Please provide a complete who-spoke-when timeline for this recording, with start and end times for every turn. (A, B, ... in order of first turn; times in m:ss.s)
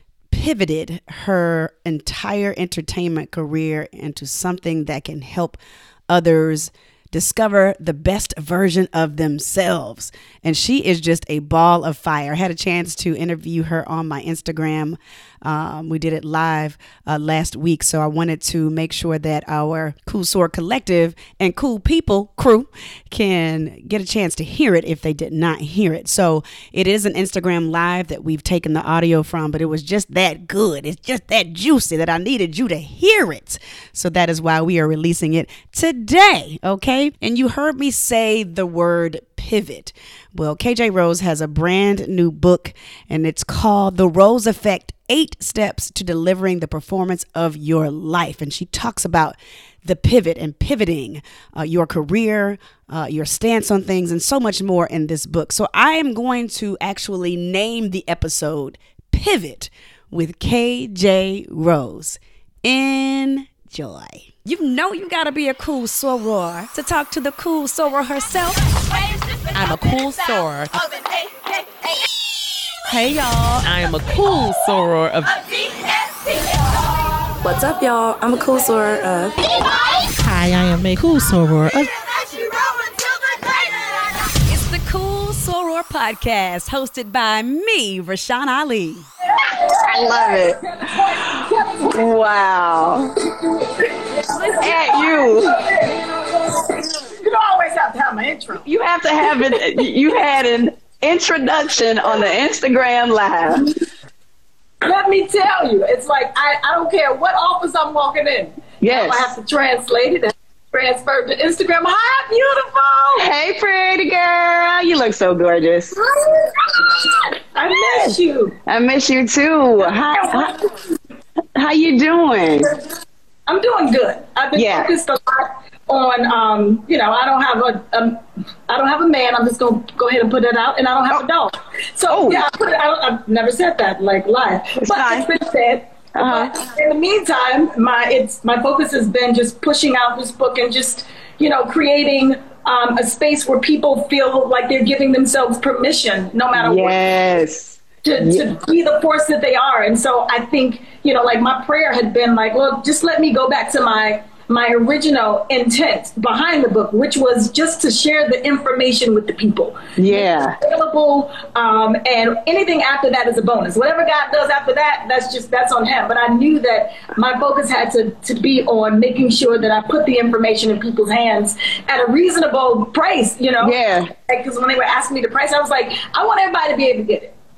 0:00.3-1:08.6 A
1:09.6-1:10.8 A
1:12.9-1:13.6 A
1:12.9-1:15.4 B
1:17.4-1:19.4 C
1:20.2-1:21.9 B
1:24.4-1:29.0 A
1:29.2-1:32.0 D
1:29.8-1:30.6 E
1:31.2-1:33.2 E
1:33.2-1:38.7 D
1:34.6-1:35.6 E
1:38.6-1:43.7 E
1:44.8-1:53.3 D
1:48.8-1:49.3 E
1:53.2-1:56.0 E
1:56.0-1:58.6 D
1:57.9-1:58.2 E
1:58.7-2:00.6 E
1:59.9-2:00.7 D
2:01.6-2:02.7 E
2:03.5-2:27.0 D
2:04.5-2:04.9 E
2:12.1-2:12.5 E
2:14.8-2:15.3 E
2:16.1-2:16.6 E
2:26.5-2:28.4 E
2:28.0-2:57.3 D
2:40.0-2:40.6 E
2:53.6-2:54.1 E